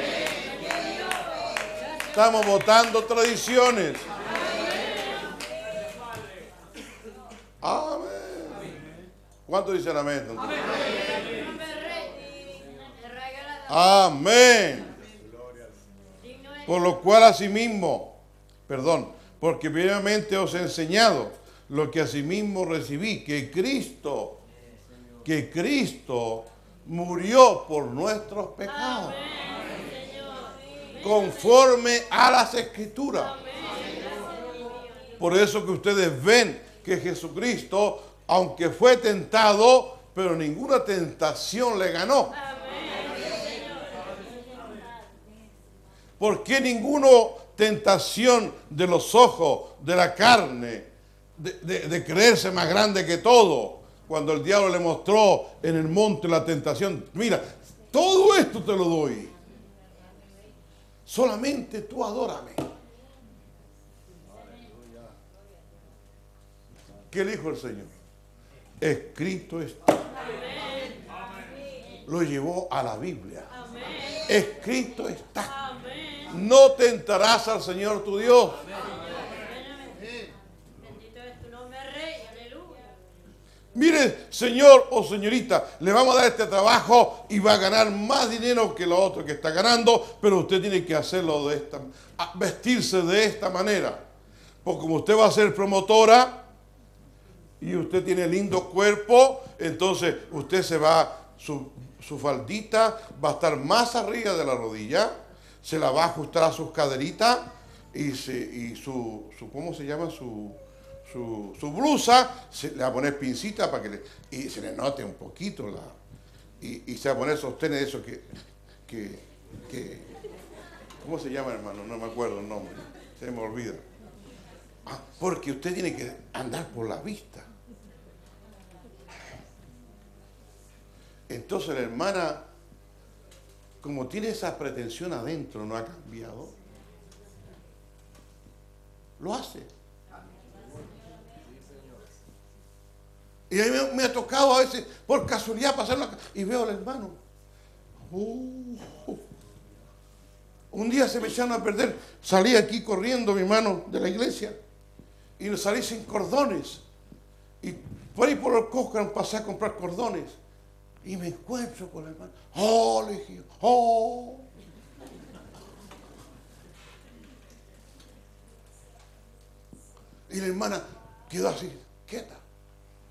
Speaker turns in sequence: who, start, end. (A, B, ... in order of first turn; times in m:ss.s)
0:00.7-0:02.2 A
0:02.1-0:04.1 B
0:07.6-0:08.7 B
0:09.5-0:10.7 B
0:11.2-0:13.9 A
0:13.7-0:15.0 B
0:16.2-0:17.0 A
0:16.7-0:18.2 B
0:18.7-0:24.4 B
0:25.2-0:29.2 B
0:29.7-0:30.5 A
0:31.0-0:33.4 B
0:34.1-0:35.0 A
0:35.2-0:42.4 B
0:42.5-0:44.8 A
0:46.2-0:50.9 B
0:51.4-0:59.3 B
1:01.1-1:02.6 B
1:07.1-1:07.9 B
1:08.8-1:10.0 B
1:12.1-1:13.5 B
1:13.6-1:14.2 A
1:14.3-1:15.5 B
1:15.6-1:16.3 A
1:16.3-1:18.6 B
1:19.0-1:23.0 A
1:23.8-1:34.0 B
1:34.6-1:36.4 B
1:37.6-1:56.0 B
1:56.6-1:58.3 B
1:58.9-2:00.1 B
2:01.0-2:03.8 B
2:04.9-2:07.5 B
2:11.3-2:12.4 B
2:13.8-2:16.5 B
2:19.2-2:19.7 B
2:23.5-2:27.2 B
2:28.1-2:29.2 B
2:30.7-2:34.6 B
2:35.4-2:36.8 B
2:37.6-2:40.4 B
2:41.0-2:44.5 B
2:50.3-2:52.4 B